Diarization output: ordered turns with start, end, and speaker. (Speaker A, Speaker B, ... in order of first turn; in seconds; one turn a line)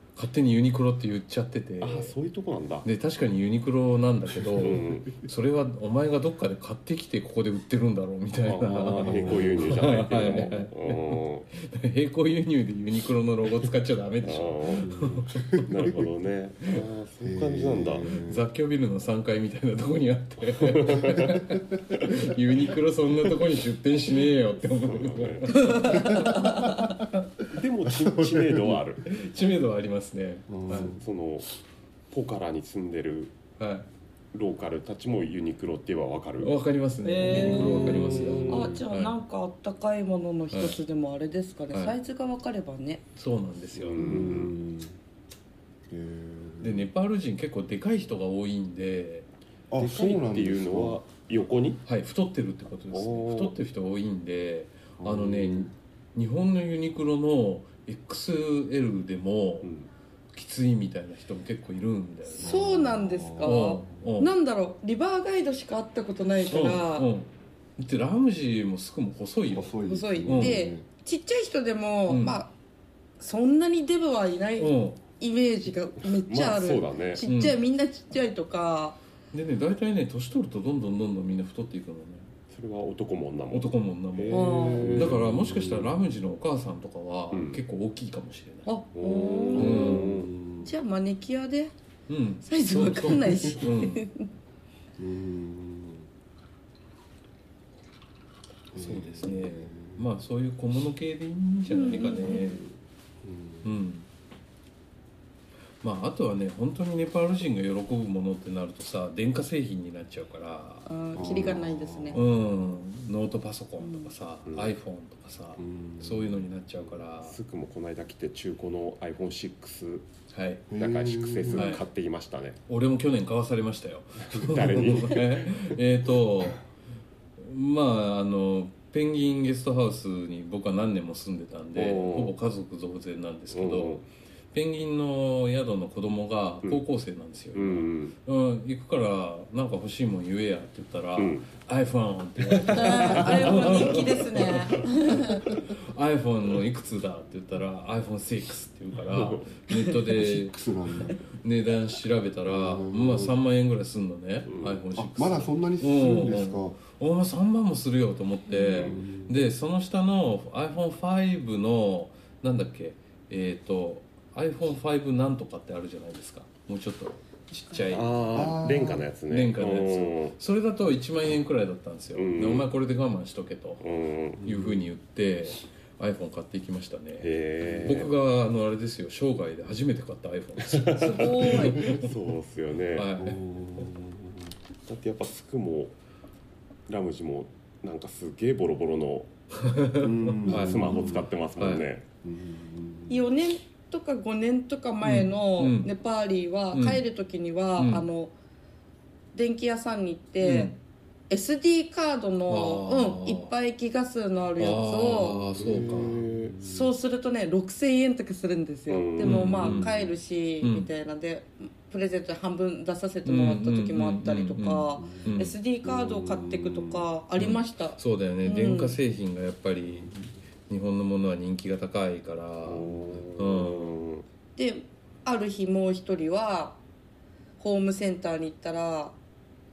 Speaker A: 0.1-2.1
Speaker B: 1.8-2.9
Speaker A: 2.8-15.7
Speaker B: 4.5-5.2
Speaker B: 8.4-11.5
Speaker C: 9.0-9.8
Speaker B: 14.2-14.9
Speaker C: 14.8-16.1
Speaker B: 15.7-18.1
Speaker C: 17.2-18.4
Speaker A: 18.2-27.1
Speaker B: 20.6-21.4
Speaker B: 24.7-25.7
Speaker D: 25.5-26.4
Speaker C: 25.8-27.0
Speaker B: 27.5-29.1
Speaker C: 27.9-28.8
Speaker A: 29.0-30.9
Speaker C: 30.5-31.0
Speaker B: 30.7-31.5
Speaker B: 32.1-33.4
Speaker A: 33.6-33.9
Speaker B: 34.3-36.5
Speaker A: 36.4-39.1
Speaker D: 37.0-43.0
Speaker C: 37.3-38.8
Speaker B: 37.3-38.4
Speaker A: 43.1-44.3
Speaker B: 43.7-44.5
Speaker C: 44.0-45.0
Speaker C: 45.9-46.9
Speaker A: 46.6-49.3
Speaker C: 49.7-51.0
Speaker B: 49.8-51.8
Speaker A: 51.8-59.7
Speaker B: 52.9-53.6
Speaker C: 55.0-55.7
Speaker B: 59.6-59.9
Speaker A: 60.3-62.5
Speaker D: 62.3-67.1
Speaker C: 62.4-63.7
Speaker A: 63.4-64.3
Speaker A: 66.5-70.6
Speaker C: 69.5-70.8
Speaker D: 69.8-72.5
Speaker A: 72.1-72.4
Speaker D: 73.2-79.0
Speaker A: 74.6-75.0
Speaker B: 76.2-77.2
Speaker A: 77.2-77.6
Speaker A: 79.3-82.3
Speaker B: 82.5-85.5
Speaker A: 83.5-88.7
Speaker D: 84.3-85.0
Speaker C: 84.6-86.0
Speaker B: 87.3-87.6
Speaker D: 88.7-90.1
Speaker B: 88.9-90.3
Speaker A: 89.5-90.2
Speaker C: 89.6-90.7
Speaker D: 90.6-91.7
Speaker A: 92.1-94.0
Speaker D: 92.4-94.3
Speaker C: 95.0-96.1
Speaker C: 98.7-100.1
Speaker A: 98.7-102.7
Speaker D: 101.7-102.5
Speaker C: 102.3-102.6
Speaker C: 103.2-103.8
Speaker A: 103.6-104.0
Speaker A: 105.8-111.5
Speaker D: 110.8-112.2
Speaker C: 111.1-112.3
Speaker A: 112.1-117.4
Speaker D: 113.8-114.1
Speaker B: 114.5-114.7
Speaker C: 115.6-116.5
Speaker B: 116.8-120.1
Speaker A: 120.3-120.7
Speaker C: 120.7-121.8
Speaker B: 120.8-122.6
Speaker A: 121.5-121.8
Speaker A: 122.7-126.6
Speaker B: 124.3-125.7
Speaker A: 127.4-150.6
Speaker B: 131.7-132.3
Speaker B: 133.5-134.0
Speaker B: 137.5-138.1
Speaker B: 141.2-141.5
Speaker B: 142.4-144.8
Speaker D: 142.7-145.4
Speaker B: 149.1-149.5
Speaker D: 149.7-149.9
Speaker C: 150.1-151.2
Speaker A: 151.2-168.5
Speaker C: 152.4-153.3
Speaker B: 154.5-154.8
Speaker C: 154.9-156.8
Speaker C: 158.8-159.4
Speaker B: 167.8-170.3
Speaker C: 168.3-169.1
Speaker A: 169.3-173.8
Speaker B: 172.1-172.7
Speaker B: 173.8-174.5
Speaker A: 174.4-182.1
Speaker C: 174.4-174.9
Speaker B: 177.2-178.1
Speaker C: 177.6-178.0
Speaker B: 180.6-183.1
Speaker D: 181.0-181.9
Speaker A: 182.9-183.4
Speaker C: 183.2-184.5
Speaker B: 184.8-185.9
Speaker B: 186.9-189.3
Speaker A: 189.6-191.8
Speaker C: 190.0-191.3
Speaker B: 190.4-192.0
Speaker C: 192.2-193.3
Speaker D: 193.1-198.3
Speaker A: 195.0-195.9
Speaker A: 196.7-197.0
Speaker A: 197.8-198.1
Speaker D: 199.3-200.7
Speaker A: 200.4-200.8
Speaker D: 201.3-205.4
Speaker A: 202.5-203.5
Speaker A: 204.6-206.2
Speaker B: 205.4-206.6
Speaker C: 205.6-206.9
Speaker D: 206.6-219.0
Speaker B: 208.9-209.9
Speaker A: 209.2-209.9
Speaker A: 210.6-210.9
Speaker A: 213.2-215.6
Speaker C: 215.0-217.0
Speaker A: 217.4-224.0
Speaker C: 220.0-220.3
Speaker B: 222.6-224.2
Speaker D: 224.6-226.8
Speaker D: 227.6-229.2